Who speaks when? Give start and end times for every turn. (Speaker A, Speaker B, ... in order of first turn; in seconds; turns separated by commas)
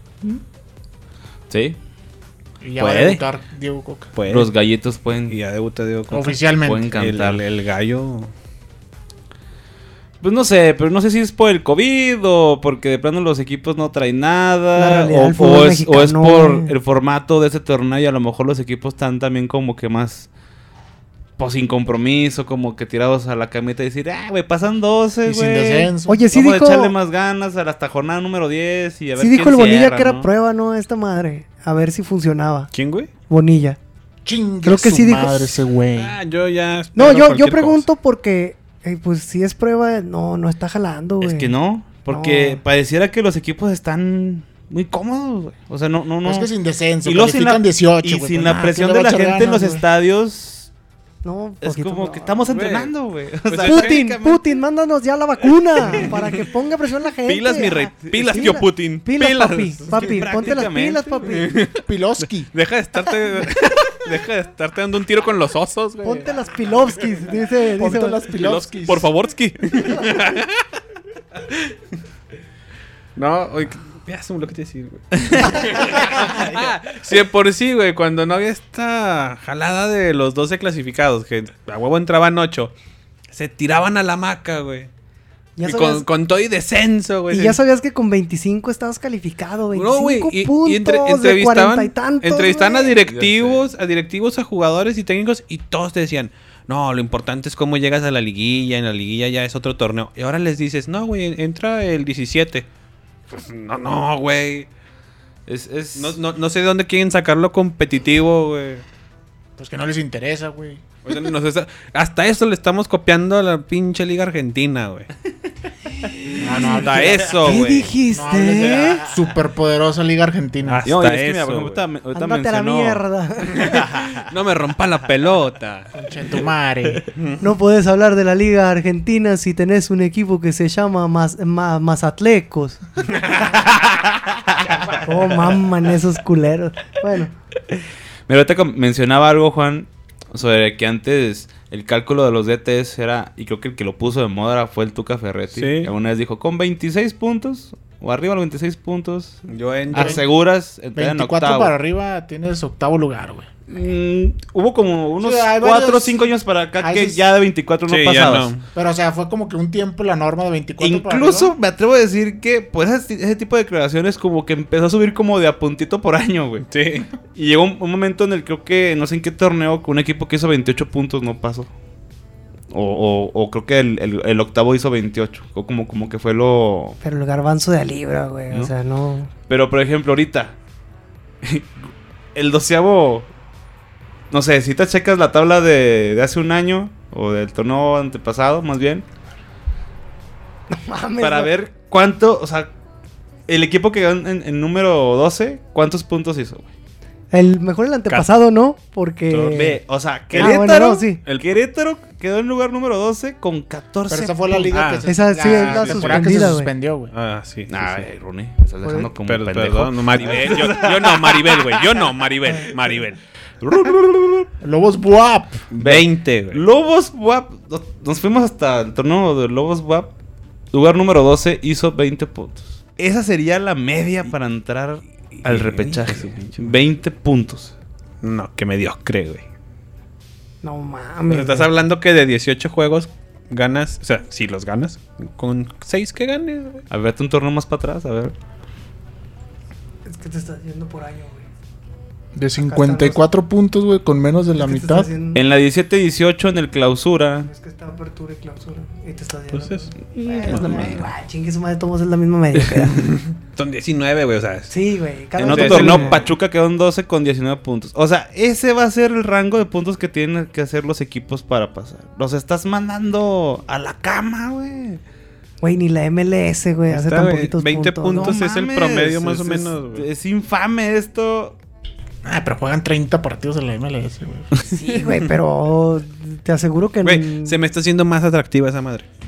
Speaker A: 1.5-1.8, Speaker B: 2.6-4.1, Speaker C: 2.8-3.2, Speaker C: 4.2-4.5, Speaker A: 4.3-5.4, Speaker C: 5.3-6.4, Speaker B: 6.1-6.9, Speaker A: 6.6-7.4, Speaker C: 7.0-8.3, Speaker A: 10.2-20.3, Speaker D: 14.8-16.7, Speaker A: 21.4-30.3, Speaker B: 25.2-26.2, Speaker D: 26.1-26.9, Speaker D: 29.2-32.7, Speaker C: 32.7-33.1, Speaker D: 33.3-33.8, Speaker B: 34.2-36.2, Speaker D: 34.6-35.6, Speaker C: 36.0-37.9, Speaker D: 37.0-41.5, Speaker A: 41.2-46.5, Speaker D: 42.1-42.6, Speaker B: 46.2-49.8, Speaker A: 47.0-50.7, Speaker D: 49.5-49.7, Speaker D: 51.2-52.4, Speaker A: 51.6-54.4, Speaker C: 52.5-52.9, Speaker C: 53.5-54.0, Speaker D: 53.6-61.6, Speaker C: 55.9-56.2, Speaker C: 57.3-60.2, Speaker A: 58.1-58.6, Speaker A: 59.9-61.2, Speaker C: 61.2-66.3, Speaker B: 61.8-62.5, Speaker D: 66.0-68.2, Speaker B: 67.8-69.1, Speaker C: 68.3-70.7, Speaker C: 73.2-82.7, Speaker C: 83.3-84.9, Speaker D: 85.6-86.1, Speaker C: 85.6-87.6, Speaker D: 87.3-93.0, Speaker C: 89.7-102.7, Speaker A: 93.1-93.6, Speaker C: 103.3-104.7, Speaker A: 105.5-106.2, Speaker C: 106.0-108.8, Speaker B: 109.6-110.8, Speaker C: 111.0-115.1, Speaker B: 116.4-120.9, Speaker C: 116.6-117.9, Speaker A: 116.9-117.7, Speaker D: 117.4-119.0, Speaker C: 120.6-121.8, Speaker A: 120.8-123.0, Speaker D: 122.1-123.8, Speaker C: 123.5-125.9, Speaker A: 123.7-124.3, Speaker B: 125.9-127.1, Speaker C: 127.2-127.4, Speaker D: 127.4-132.8, Speaker A: 133.7-134.9, Speaker B: 134.7-135.1, Speaker D: 135.0-137.3, Speaker A: 137.7-151.7, Speaker C: 145.5-145.9, Speaker C: 149.5-150.2, Speaker B: 149.9-150.2, Speaker B: 150.9-153.5, Speaker A: 153.7-158.5, Speaker B: 155.2-156.3, Speaker B: 156.8-157.2, Speaker C: 157.9-158.7, Speaker B: 158.7-161.5, Speaker A: 160.8-166.7, Speaker C: 166.7-167.1, Speaker A: 167.3-171.7, Speaker A: 172.7-177.0, Speaker D: 177.0-179.3, Speaker A: 179.5-180.6, Speaker A: 181.4-181.8, Speaker A: 182.3-183.3, Speaker A: 184.3-189.1, Speaker D: 190.7-191.5, Speaker A: 191.2-192.7, Speaker A: 193.5-196.7, Speaker D: 197.3-199.8, Speaker C: 199.3-199.7, Speaker A: 199.5-204.8, Speaker D: 200.3-201.2, Speaker C: 200.3-200.6, Speaker C: 201.2-201.5, Speaker B: 204.1-207.1, Speaker C: 204.7-206.6, Speaker D: 205.1-206.7, Speaker C: 207.1-208.1, Speaker A: 207.7-212.0, Speaker D: 208.8-209.1, Speaker C: 209.2-213.2, Speaker A: 213.6-214.5, Speaker B: 214.6-215.7, Speaker C: 215.7-216.6, Speaker A: 215.8-220.1, Speaker A: 220.7-227.7, Speaker C: 225.4-226.7, Speaker C: 228.2-229.4, Speaker D: 230.6-231.7, Speaker C: 231.3-236.8, Speaker A: 236.9-238.3, Speaker D: 240.1-241.5, Speaker B: 242.3-245.1, Speaker D: 242.6-243.2, Speaker D: 244.6-245.4, Speaker A: 245.3-247.5, Speaker D: 247.5-253.1, Speaker C: 249.5-249.9, Speaker A: 250.2-251.1, Speaker C: 252.9-254.7, Speaker D: 254.7-256.2, Speaker A: 255.4-265.0, Speaker C: 255.4-256.2, Speaker D: 265.6-268.4, Speaker C: 266.9-270.1, Speaker A: 268.1-271.6, Speaker B: 272.2-274.5, Speaker D: 274.7-277.6, Speaker C: 277.0-279.1